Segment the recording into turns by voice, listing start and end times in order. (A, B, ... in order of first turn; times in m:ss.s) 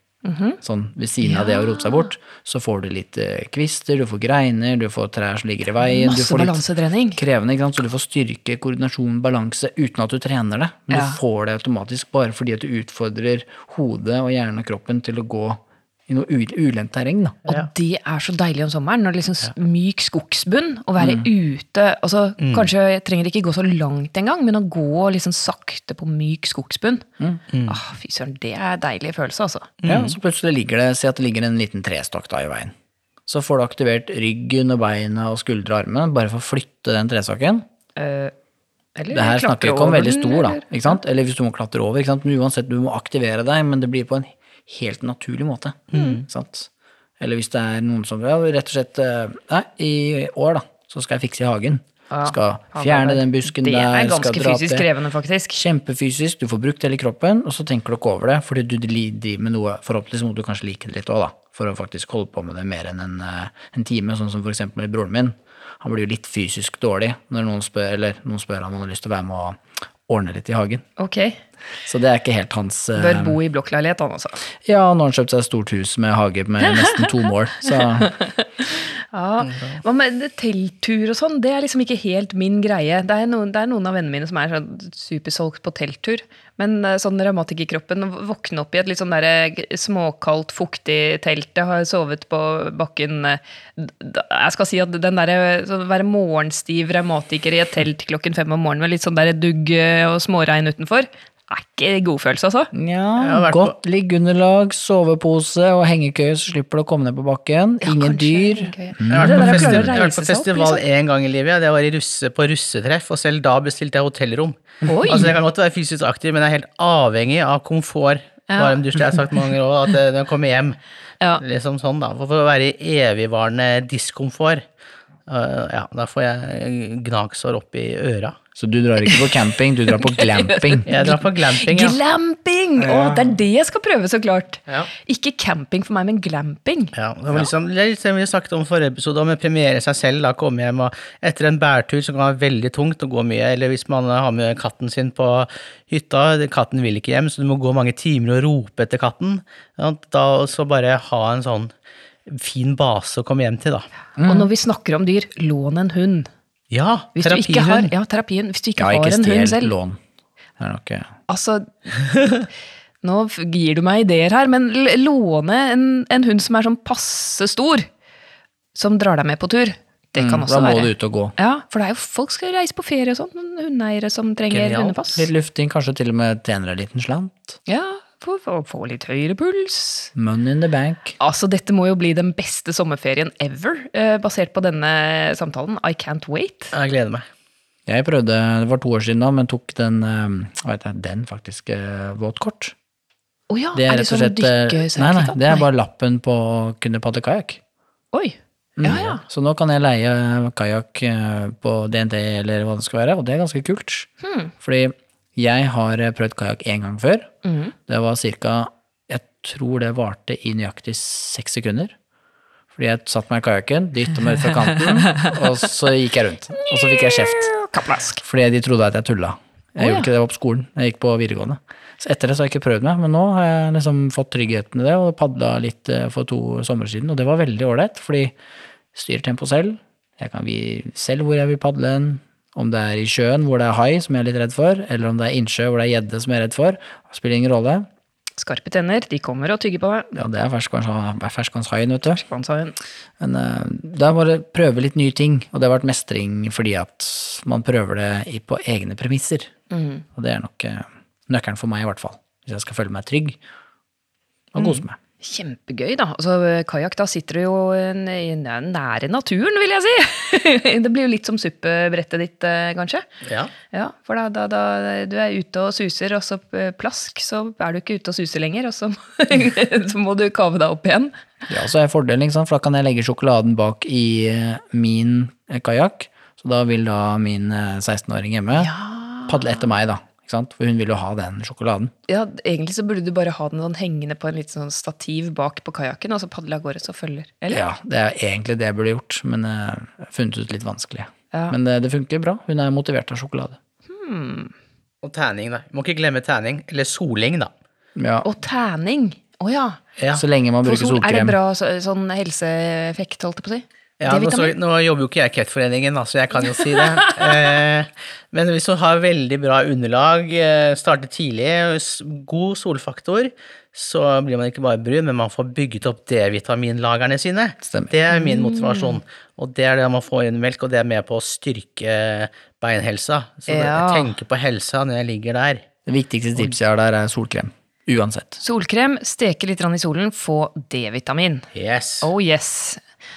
0:00.2-0:00.6 A
0:00.6-0:06.6 B
0:01.2-0:02.1 A
0:05.8-0:07.2 A
0:07.2-0:17.4 B
0:10.9-0:11.2 A
0:17.5-0:27.0 A
0:21.0-0:21.3 B
0:22.4-0:22.7 C
0:27.5-0:27.8 C
0:27.7-0:29.7 A
0:29.8-0:30.1 C
0:29.9-0:32.7 B
0:33.2-0:37.6 B
0:38.0-0:38.3 A
0:39.0-0:41.0 A
0:39.1-0:54.9 B
0:45.9-0:46.2 C
0:45.9-0:46.2 A
0:52.1-0:55.6 A
0:55.6-1:10.8 B
1:11.0-1:11.4 A
1:11.8-1:13.4 B
1:12.9-1:14.4 A
1:14.6-1:18.2 B
1:16.6-1:42.7 A
1:19.4-1:19.8 C
1:42.7-1:49.9 B
1:43.2-1:43.7 C
1:47.8-1:50.8 A
1:49.1-2:00.8 C
1:54.8-1:55.3 A
1:58.5-1:58.8 A
2:01.4-2:04.6 C
2:05.3-2:08.4 C
2:08.6-2:10.9 B
2:09.9-2:17.5 A
2:10.9-2:12.0 C
2:12.8-2:13.2 C
2:16.9-2:31.7 C
2:32.3-2:33.9 C
2:34.2-2:34.5 B
2:34.3-2:36.3 A
2:36.7-2:37.9 C
2:37.2-2:39.7 A
2:38.8-2:40.0 B
2:40.6-2:41.1 B
2:41.3-2:42.0 A
2:43.0-2:47.9 A
2:48.7-2:55.3 A
2:50.2-2:51.4 B
2:54.5-2:55.0 C
2:55.2-2:57.6 B
2:57.7-3:00.1 A
3:00.2-3:01.2 B
3:01.2-3:06.7 A
3:06.7-3:07.3 C
3:07.9-3:12.7 B
3:13.5-3:15.6 A
3:13.7-3:17.6 B
3:18.1-3:19.2 A
3:18.8-3:27.3 B
3:24.2-3:24.5 A
3:27.4-3:27.7 A
3:27.9-3:31.9 B
3:32.7-3:37.6 B
3:34.8-3:35.4 A
3:36.6-3:38.2 A
3:38.2-3:48.4 B
3:39.8-3:40.1 A
3:48.9-3:57.9 B
3:58.4-4:00.1 A
4:00.1-4:02.2 B
4:02.1-4:02.8 A
4:03.2-4:09.5 B
4:09.7-4:10.0 A
4:10.1-4:13.4 B
4:14.5-4:15.0 B
4:14.6-4:23.1 A
4:23.2-4:23.5 C
4:23.7-4:31.1 A
4:31.5-4:38.7 B
4:38.6-4:39.6 A
4:39.3-4:41.9 B
4:42.1-4:47.6 A
4:47.5-4:53.6 B
4:53.9-4:54.5 A
4:55.0-4:57.5 C
4:58.0-4:58.3 B
4:58.2-4:59.8 A
5:00.0-5:00.2 C
5:00.1-5:01.4 B
5:00.6-5:04.6 A
5:04.0-5:25.6 C
5:06.6-5:07.6 A
5:17.6-5:17.9 B
5:18.1-5:19.0 A
5:23.5-5:24.1 A
5:25.9-5:28.4 B
5:28.4-5:31.5 A
5:31.5-5:32.1 C
5:32.0-5:32.8 A